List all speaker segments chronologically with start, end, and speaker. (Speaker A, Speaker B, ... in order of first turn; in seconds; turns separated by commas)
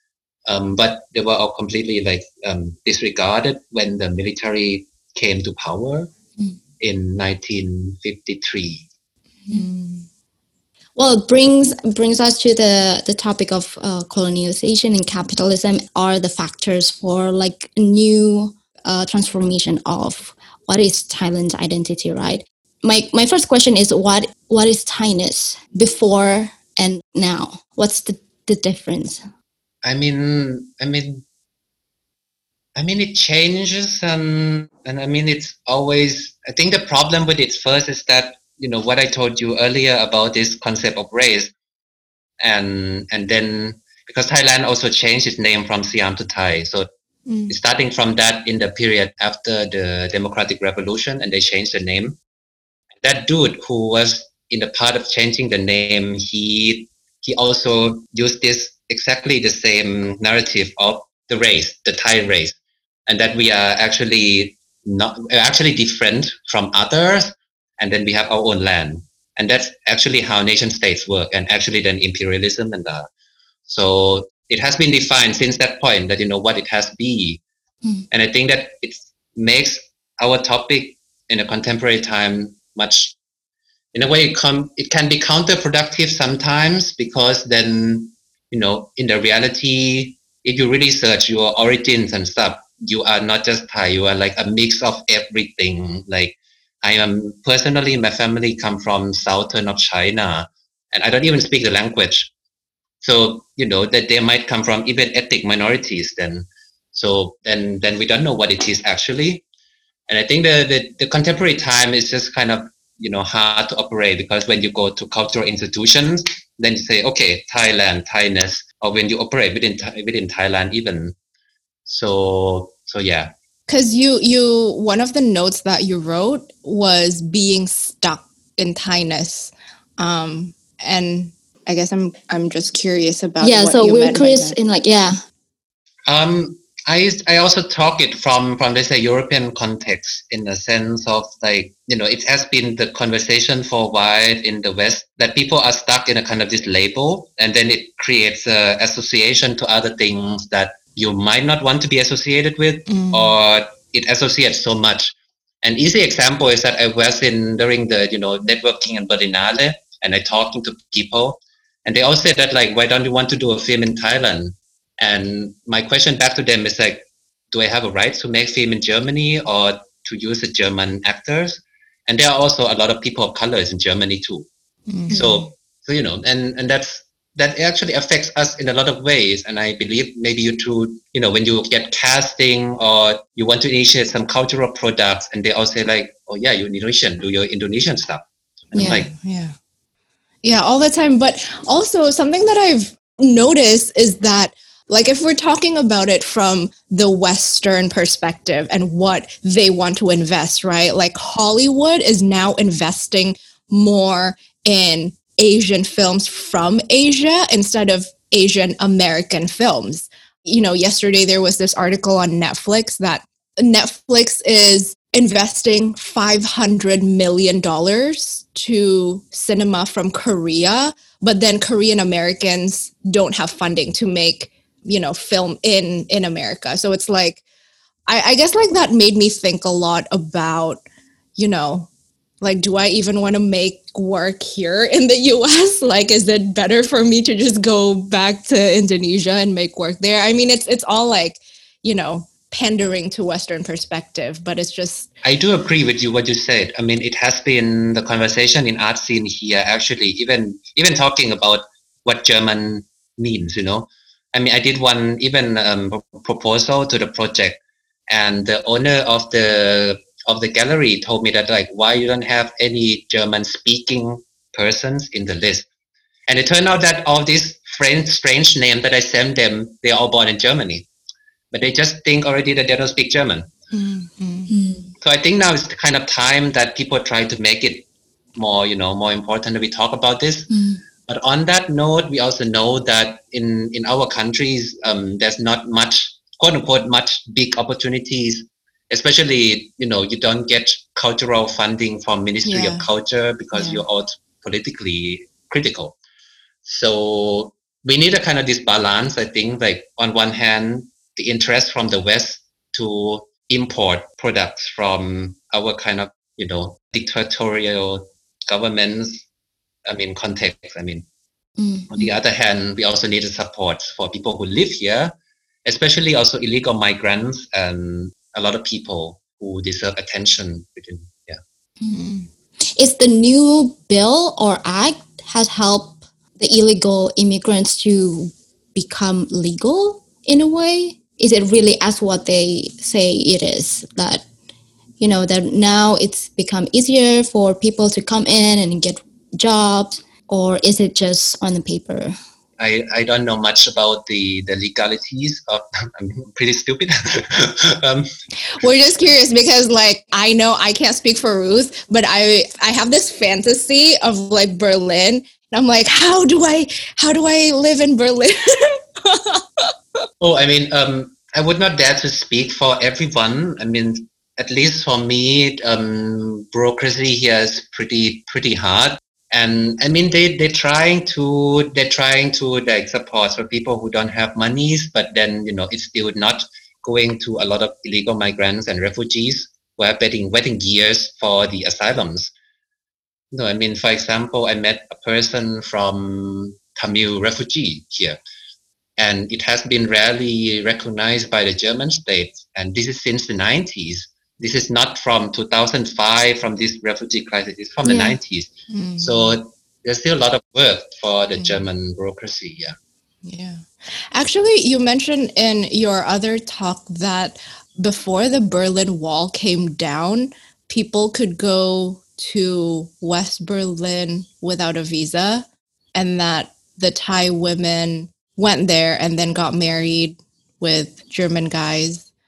Speaker A: 0.5-6.1, Speaker A: 6.8-8.9, Speaker B: 9.5-10.1, Speaker C: 11.0-29.2, Speaker A: 29.8-31.2, Speaker A: 32.8-41.5, Speaker A: 42.4-46.9, Speaker B: 47.3-47.5, Speaker A: 47.5-52.2, Speaker A: 53.0-73.1, Speaker A: 73.7-77.4, Speaker A: 78.1-83.2, Speaker A: 83.9-102.3, Speaker A: 103.0-109.4, Speaker A: 110.1-121.2, Speaker A: 121.9-123.3, Speaker B: 123.7-134.6, Speaker C: 133.4-135.2, Speaker A: 136.1-174.5, Speaker B: 152.9-153.3, Speaker B: 174.9-175.5, Speaker A: 175.1-189.1, Speaker C: 188.8-189.1, Speaker B: 188.8-189.6, Speaker B: 190.4-227.4, Speaker B: 228.1-230.8, Speaker B: 231.4-231.9, Speaker B: 232.4-245.1, Speaker A: 245.2-265.7, Speaker A: 266.3-270.9, Speaker A: 271.5-273.5, Speaker B: 273.7-274.5, Speaker C: 274.5-274.9, Speaker A: 275.0-280.5, Speaker C: 280.5-280.8, Speaker A: 281.1-296.0, Speaker B: 292.4-292.9, Speaker B: 293.6-293.8, Speaker A: 296.6-309.2, Speaker A: 309.9-311.1, Speaker C: 311.6-311.9, Speaker A: 311.9-315.1, Speaker A: 315.6-321.4, Speaker B: 321.9-322.3, Speaker C: 322.8-334.2, Speaker C: 335.0-342.1, Speaker A: 342.6-348.1, Speaker B: 348.4-359.7, Speaker A: 360.2-382.3, Speaker A: 383.3-388.2, Speaker A: 389.0-402.8, Speaker C: 397.9-398.2, Speaker B: 398.7-399.4, Speaker B: 403.2-422.1